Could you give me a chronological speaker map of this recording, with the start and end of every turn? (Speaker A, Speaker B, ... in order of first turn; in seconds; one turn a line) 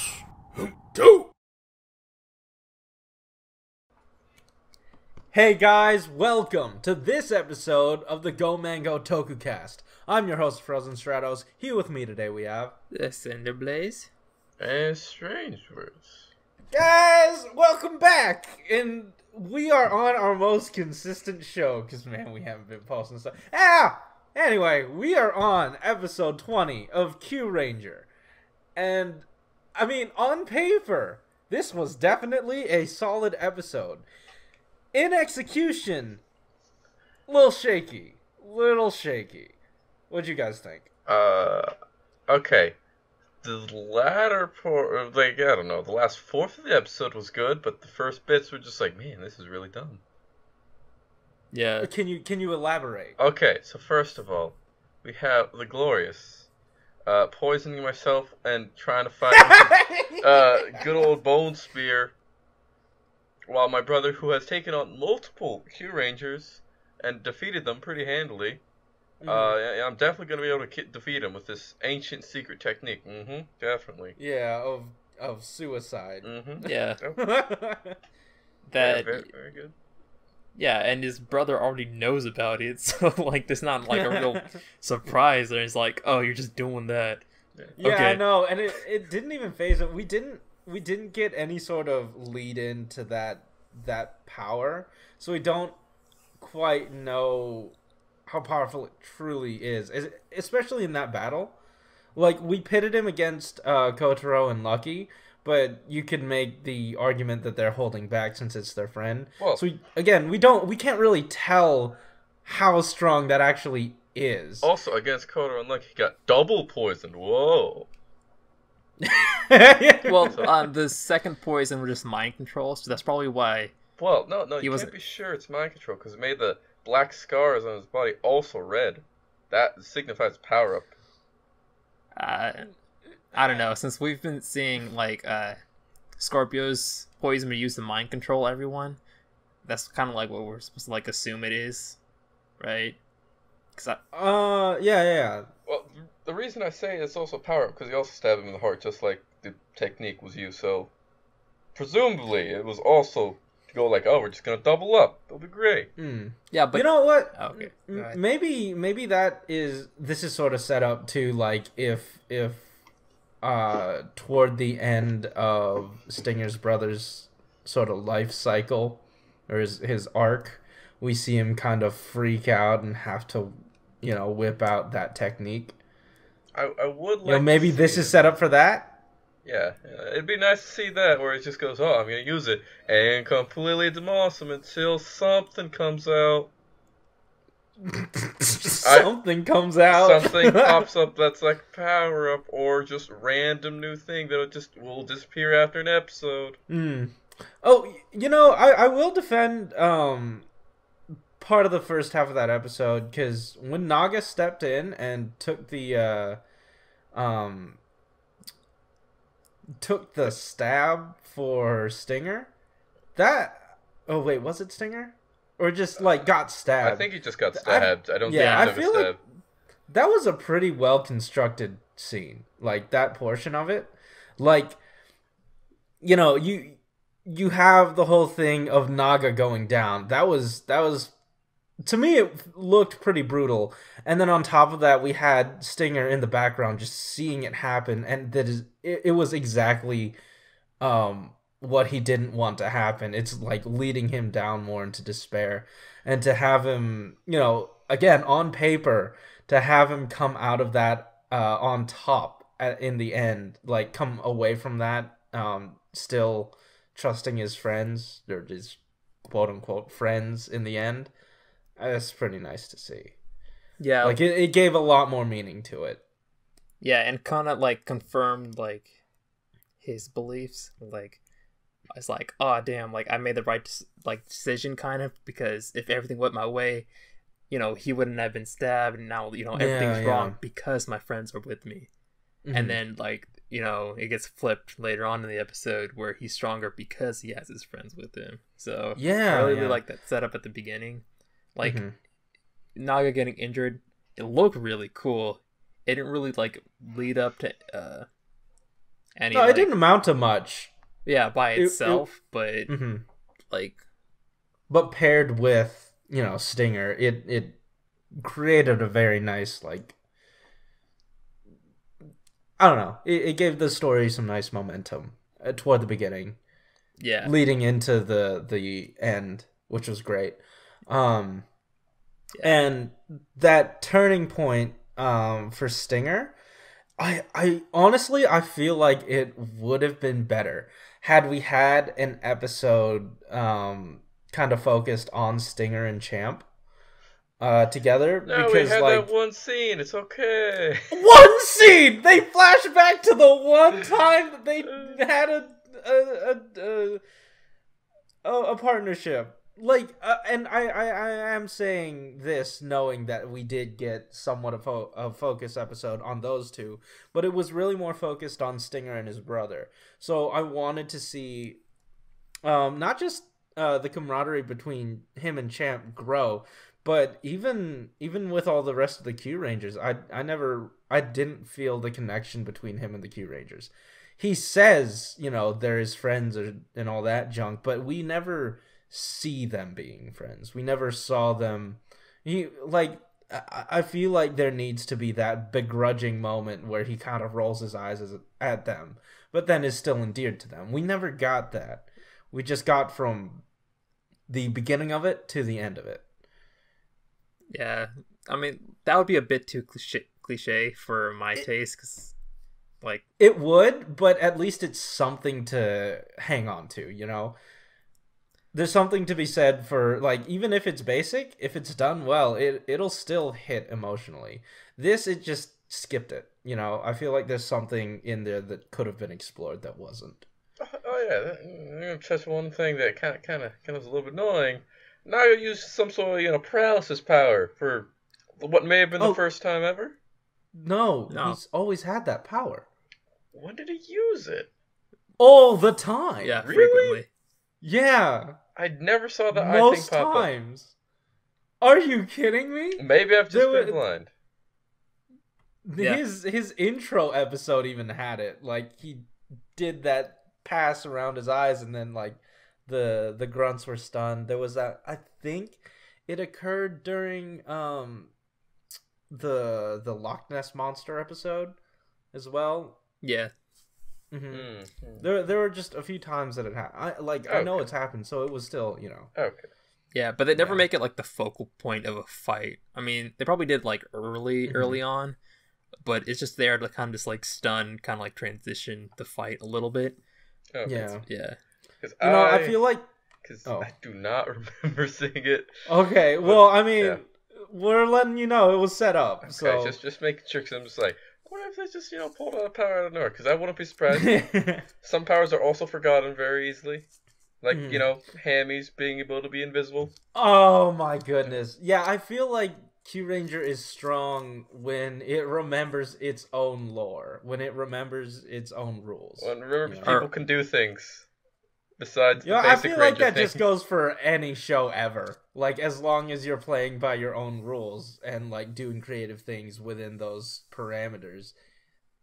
Speaker A: 5.3-12.8
Speaker B: 12.9-14.1
Speaker C: 14.6-16.3
Speaker A: 16.7-28.1
Speaker A: 28.8-34.1
Speaker A: 34.9-36.2
Speaker A: 37.3-39.5
Speaker A: 40.1-40.9
Speaker C: 41.1-41.7
Speaker C: 42.3-42.8
Speaker C: 43.4-50.0
Speaker B: 51.5-51.9
Speaker A: 51.8-53.2
Speaker C: 53.2-56.5
Speaker C: 57.1-62.1
Speaker A: 59.3-60.2
Speaker C: 63.5-68.6
Speaker A: 69.2-69.6
Speaker C: 69.2-74.2
Speaker A: 74.2-78.0
Speaker C: 76.2-77.2
Speaker B: 76.6-77.0
Speaker B: 78.7-79.3
Speaker C: 78.8-79.8
Speaker B: 80.5-87.2
Speaker A: 83.9-84.5
Speaker B: 87.8-88.2
Speaker A: 87.8-95.8
Speaker A: 96.4-97.8
Speaker A: 98.3-101.6
Speaker A: 102.2-114.7
Speaker C: 114.6-117.9
Speaker A: 119.0-120.5
Speaker B: 120.0-123.7
Speaker C: 124.0-130.9
Speaker B: 124.6-124.9
Speaker B: 132.2-132.7
Speaker B: 133.3-135.6
Speaker B: 136.2-139.0
Speaker B: 139.7-142.0
Speaker B: 142.6-143.0
Speaker B: 143.8-144.0
Speaker A: 144.1-145.5
Speaker C: 145.7-150.9
Speaker C: 151.8-155.9
Speaker A: 156.0-162.7
Speaker B: 156.5-158.2
Speaker A: 163.4-175.8
Speaker C: 176.5-178.3
Speaker A: 177.3-178.9
Speaker C: 179.4-186.5
Speaker A: 187.8-190.9
Speaker C: 188.8-189.1
Speaker C: 189.9-196.6
Speaker A: 196.7-200.5
Speaker A: 201.4-206.4
Speaker A: 207.1-207.8
Speaker A: 209.8-212.5
Speaker A: 213.2-219.2
Speaker C: 216.8-219.2
Speaker B: 218.3-218.8
Speaker A: 219.9-224.8
Speaker A: 226.0-231.1
Speaker A: 231.8-240.2
Speaker A: 240.8-261.1
Speaker A: 261.8-263.1
Speaker B: 263.8-264.2
Speaker A: 264.0-266.0
Speaker B: 266.8-269.0
Speaker B: 269.8-271.2
Speaker B: 271.9-276.9
Speaker B: 277.5-281.9
Speaker A: 279.6-280.4
Speaker A: 282.4-282.8
Speaker B: 282.5-291.0
Speaker A: 289.0-289.8
Speaker B: 291.6-291.8
Speaker A: 291.6-291.9
Speaker B: 292.8-298.1
Speaker B: 299.2-299.7
Speaker A: 299.3-300.7
Speaker B: 301.1-302.7
Speaker A: 301.6-302.1
Speaker A: 302.7-303.0
Speaker B: 303.5-303.8
Speaker A: 304.7-307.6
Speaker A: 308.1-309.9
Speaker A: 312.6-316.4
Speaker B: 317.0-317.3
Speaker A: 317.2-321.5
Speaker A: 322.4-326.4
Speaker A: 327.0-336.5
Speaker A: 337.4-339.1
Speaker C: 338.3-340.9
Speaker A: 340.9-347.0
Speaker A: 348.2-361.6
Speaker A: 362.4-393.4
Speaker A: 394.3-396.1
Speaker B: 397.5-402.1
Speaker A: 403.2-407.4
Speaker A: 408.5-420.3
Speaker C: 420.6-430.0
Speaker A: 430.5-432.7
Speaker B: 431.1-431.4
Speaker C: 433.3-434.5
Speaker A: 435.2-436.5
Speaker B: 436.2-437.1
Speaker C: 436.4-437.0
Speaker A: 437.6-438.4
Speaker C: 438.6-440.3
Speaker A: 439.3-440.8
Speaker A: 441.6-443.8
Speaker C: 442.8-444.1
Speaker A: 445.6-458.1
Speaker B: 445.8-446.0
Speaker A: 459.1-461.6
Speaker A: 462.1-462.8
Speaker B: 463.0-463.3
Speaker A: 464.1-469.1
Speaker C: 464.3-465.1
Speaker C: 467.3-467.7
Speaker C: 469.2-469.5
Speaker B: 469.9-475.2
Speaker A: 470.3-470.6
Speaker A: 474.5-474.8
Speaker B: 475.9-480.0
Speaker C: 480.5-481.0
Speaker A: 480.6-481.1
Speaker B: 481.1-481.4
Speaker C: 481.8-482.6
Speaker A: 482.0-482.8
Speaker C: 483.2-485.6
Speaker A: 485.7-489.8
Speaker C: 486.2-487.0
Speaker C: 489.2-494.3
Speaker A: 493.9-494.7
Speaker C: 494.8-496.9
Speaker C: 497.4-499.9
Speaker A: 497.5-497.9
Speaker A: 500.1-510.0
Speaker C: 509.2-511.1
Speaker B: 509.9-510.1
Speaker C: 511.8-513.4
Speaker A: 512.2-521.4